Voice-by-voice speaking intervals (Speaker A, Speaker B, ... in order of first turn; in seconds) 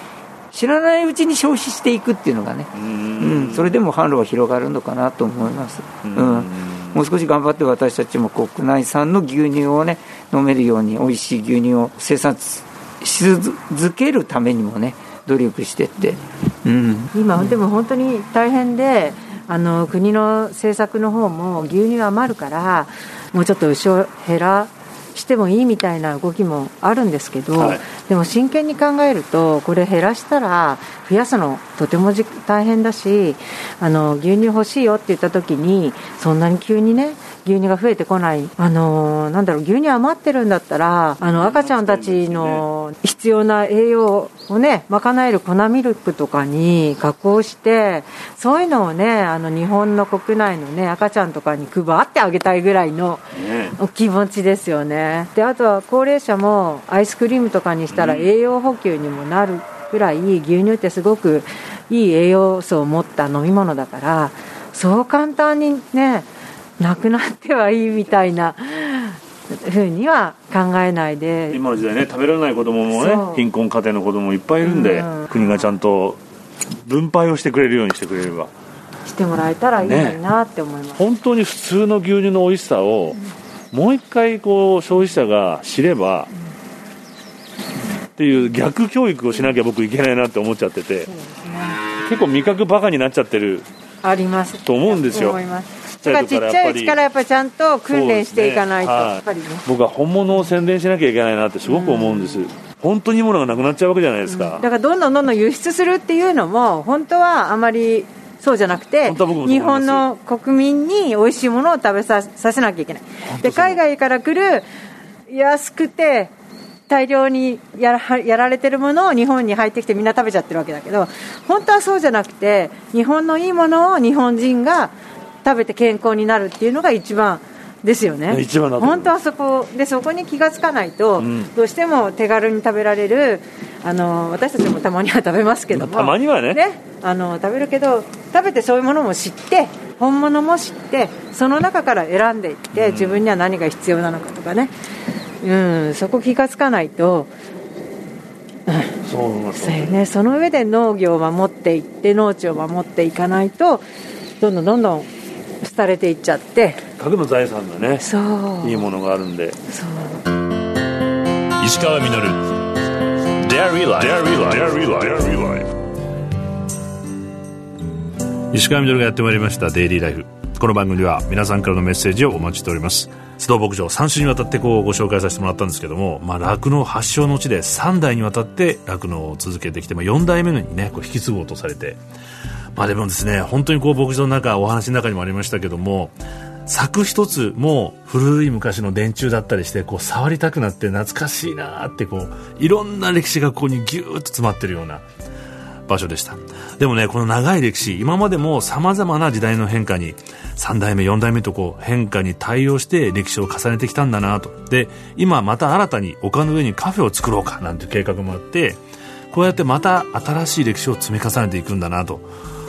Speaker A: 0.5-17.6
Speaker B: 2.8-3.7, 6.0-6.9, 41.2-42.6, 53.3-53.7, 57.9-58.3, 71.5-76.2, 76.8-78.5, 79.8-80.2, 81.0-83.2, 83.7-86.3, 88.2-91.1, 92.0-93.7, 94.7-95.4, 96.0-97.0, 97.9-104.7, 109.0-110.0, 113.2-113.8, 128.3-129.1, 131.2-131.5, 135.7-136.6, 142.7-143.2, 149.0-149.9, 157.0-158.1, 158.6-159.6, 161.6-162.5, 163.4-165.7, 168.5-182.0, 182.8-186.1, 186.7-195.0, 195.9-208.8, 209.3-212.2
Speaker C: 17.1-66.3, 66.8-71.6, 72.9-73.5, 74.6-75.7, 79.0-81.0, 91.1-91.8, 94.0-99.6, 101.6-102.5, 104.3-114.7, 115.3-116.3, 116.9-144.7, 145.4-147.3, 148.7-149.0, 149.5-153.8, 154.4-155.1, 155.6-156.8, 158.0-158.9, 159.7-160.2